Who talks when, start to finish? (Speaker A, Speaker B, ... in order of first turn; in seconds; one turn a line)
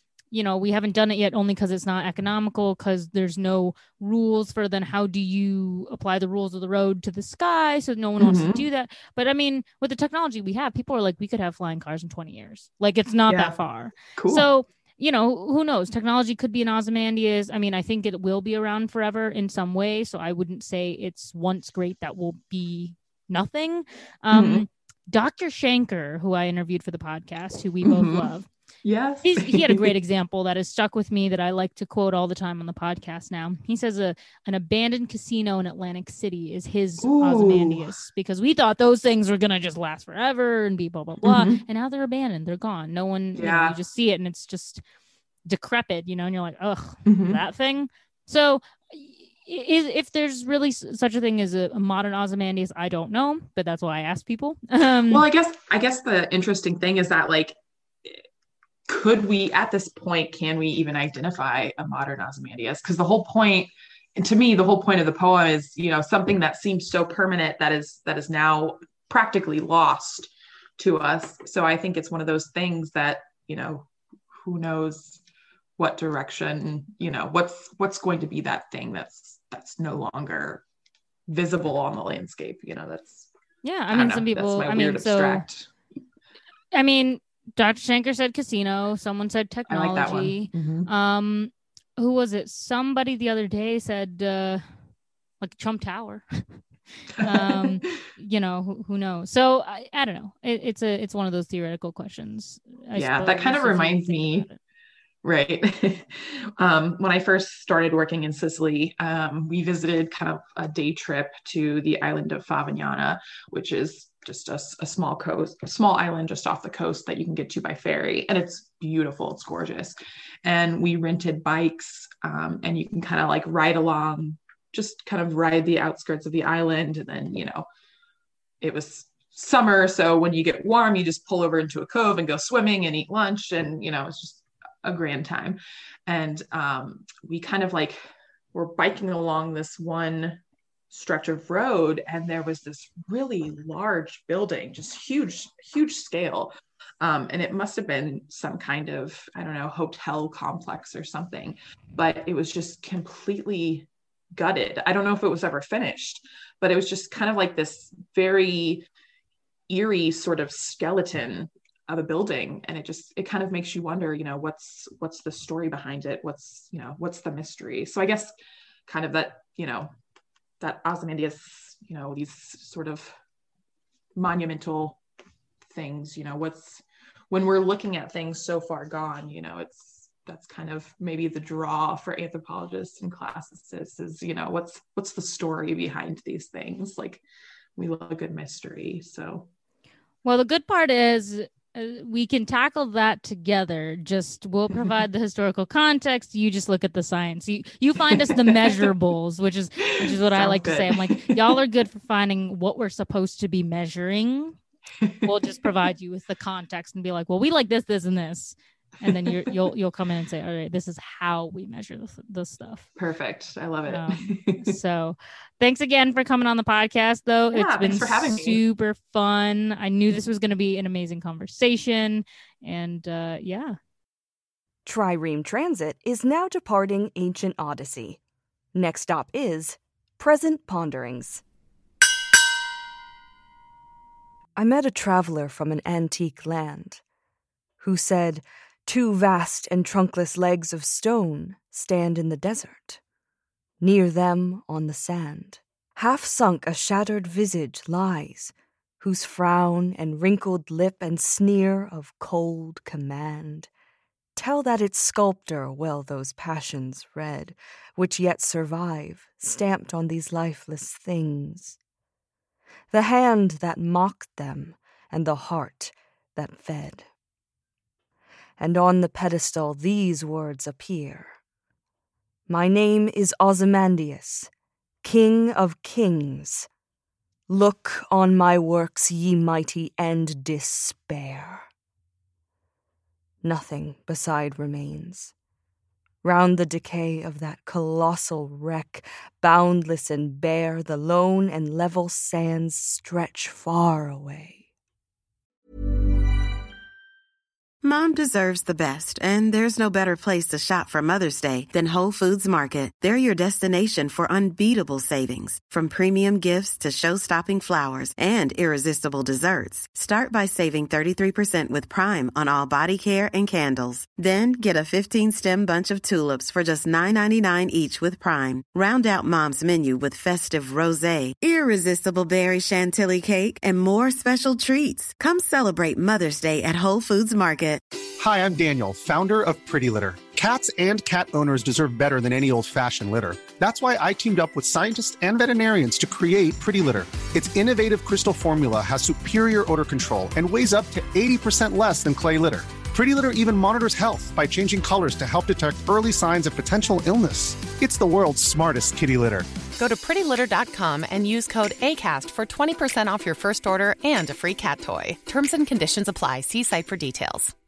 Speaker A: 0.3-28.5
Speaker B: 8.2-8.7
Speaker B: 13.3-13.6
Speaker B: 14.2-14.5
Speaker B: 24.3-24.6
Speaker B: 27.8-28.3
Speaker B: 28.9-29.9
Speaker A: 29.2-44.8
Speaker B: 37.0-37.9
Speaker B: 41.2-41.6
Speaker B: 43.4-43.8
Speaker A: 45.5-55.2
Speaker B: 47.1-47.4
Speaker B: 55.1-58.2
Speaker B: 58.9-75.2
Speaker B: 75.8-80.6
Speaker B: 81.3-83.3
Speaker A: 83.6-85.5
Speaker B: 83.9-85.7
Speaker A: 86.7-94.6
Speaker B: 89.7-90.9
Speaker A: 95.4-96.5
Speaker B: 97.2-97.9
Speaker A: 97.2-104.6
Speaker B: 103.0-104.5
Speaker B: 105.2-127.7
Speaker B: 128.6-138.0
Speaker B: 138.5-140.4
Speaker B: 140.9-158.8
Speaker B: 159.7-168.3
Speaker B: 168.9-169.9
Speaker B: 170.6-173.1
Speaker B: 174.2-175.0
Speaker B: 175.7-187.2
Speaker B: 187.8-189.5
Speaker A: 190.2-204.6
Speaker B: 198.1-198.9
Speaker B: 199.8-201.6
Speaker B: 205.0-205.3
Speaker A: 205.2-212.9
Speaker B: 209.0-209.3
Speaker B: 213.0-214.8
Speaker A: 213.9-223.8
Speaker B: 217.5-218.6
Speaker C: 224.8-228.2
Speaker C: 228.7-231.4
Speaker C: 234.6-237.0
Speaker C: 237.8-243.0
Speaker C: 243.8-253.7
Speaker C: 254.4-261.8
Speaker C: 262.9-267.1
Speaker C: 268.6-271.4
Speaker C: 272.5-274.5
Speaker C: 275.0-276.7
Speaker C: 277.5-281.7
Speaker C: 283.4-285.3
Speaker C: 286.2-294.7
Speaker D: 297.8-327.8
Speaker E: 328.2-349.5
Speaker F: 349.8-357.5